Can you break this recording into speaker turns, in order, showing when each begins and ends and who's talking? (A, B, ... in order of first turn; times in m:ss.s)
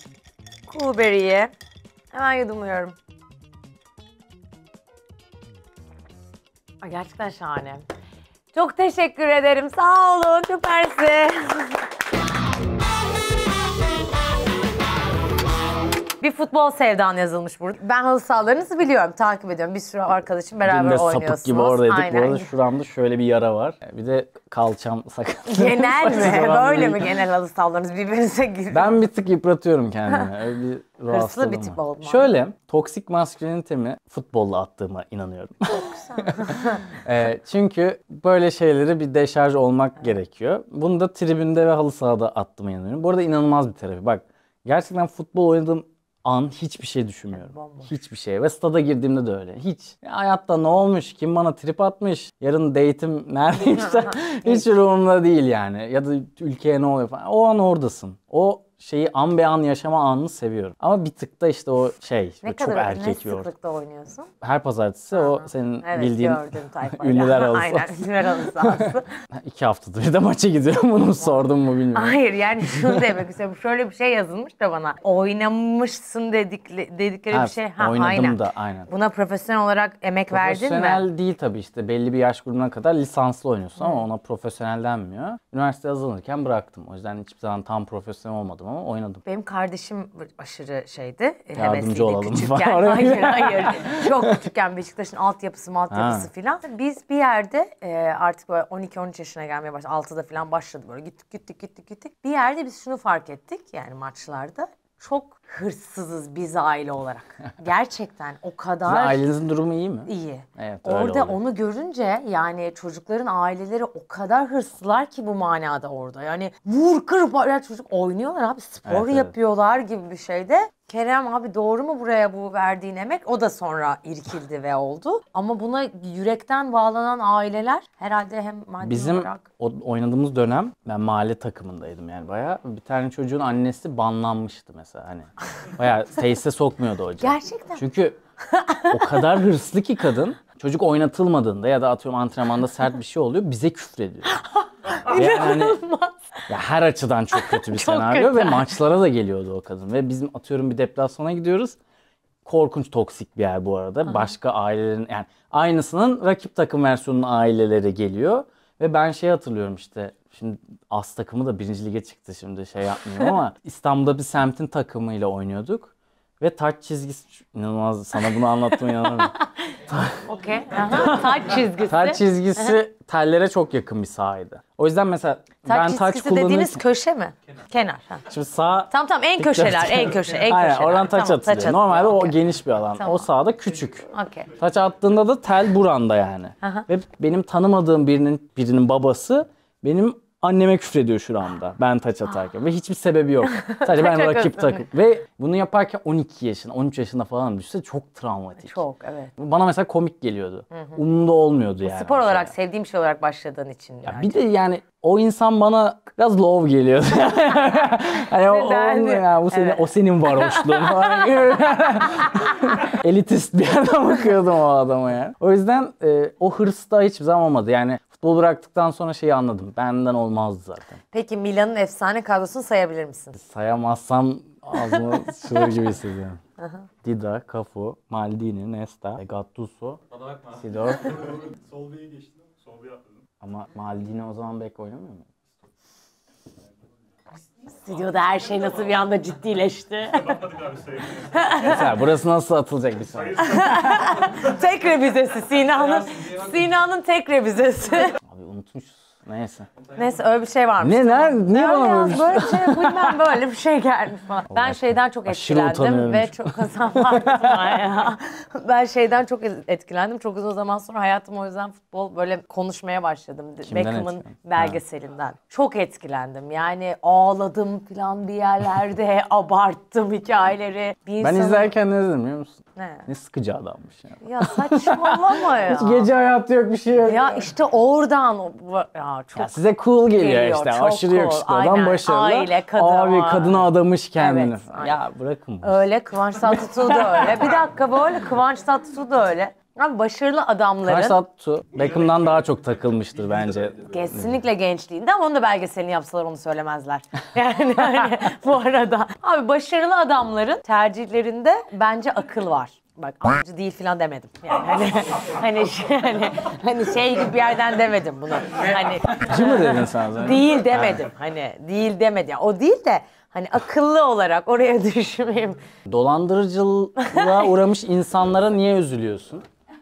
0:00.7-0:01.5 A
0:02.1-0:03.0 A
0:06.8-0:07.8 A
0:08.5-0:11.8 A
0:16.2-0:22.5 A
0:20.6-0:27.2 B
0:25.5-0:29.0 A
0:28.7-1:03.5 B
0:31.1-0:32.4 A
0:36.0-0:36.8 A
0:47.3-0:47.9 A
0:53.8-0:54.7 A
1:02.4-1:04.3 A
1:04.4-1:08.1 B
1:05.1-1:09.1 A
1:08.7-1:12.2 B
1:11.2-1:21.0 A
1:12.7-1:13.1 B
1:17.3-1:18.9 B
1:20.3-1:29.2 B
1:29.2-1:49.3 A
1:31.6-1:34.2 B
1:35.9-1:36.3 B
1:48.8-1:51.4 B
1:50.1-2:09.4 A
1:58.8-1:59.3 B
2:08.8-2:18.2 B
2:17.2-2:17.8 A
2:18.5-2:19.3 A
2:18.9-2:24.4 B
2:24.3-2:26.5 A
2:25.0-2:25.8 B
2:26.5-2:31.8 B
2:27.3-2:28.7 A
2:32.4-2:49.3 B
2:48.9-2:49.5 A
2:49.9-2:50.2 B
2:50.2-2:52.8 A
2:50.8-2:56.8 B
2:55.7-2:58.2 A
2:58.3-3:18.8 B
2:58.9-3:02.4 A
3:03.0-3:03.3 A
3:04.0-3:04.5 A
3:13.5-3:14.8 A
3:18.6-3:19.3 A
3:19.4-3:22.5 B
3:20.7-3:21.0 A
3:21.8-3:24.3 A
3:24.0-3:41.0 B
3:28.4-3:31.3 A
3:41.1-3:43.4 A
3:43.3-3:46.4 B
3:47.0-3:50.0 B
3:50.1-3:53.2 C
3:50.6-3:51.4 B
3:53.4-3:55.3 B
3:57.7-4:00.4 A
4:00.1-4:01.9 C
4:01.3-4:01.8 A
4:01.6-4:03.5 B
4:03.1-4:04.6 C
4:03.4-4:08.2 A
4:06.0-4:06.4 C
4:08.2-4:09.7 B
4:10.0-4:31.7 A
4:10.8-4:13.2 B
4:14.5-4:17.8 B
4:23.6-4:24.8 B
4:31.2-4:37.5 B
4:32.8-4:33.1 A
4:34.2-4:36.1 A
4:37.0-4:39.6 A
4:39.4-4:45.8 B
4:40.2-4:45.0 A
4:45.6-4:51.2 A
4:46.4-4:47.6 B
4:50.8-4:54.4 B
4:51.8-4:52.6 C
4:53.2-4:53.8 C
4:53.9-5:15.6 A
5:09.0-5:11.1 B
5:15.9-5:19.4 B
5:17.0-5:17.5 A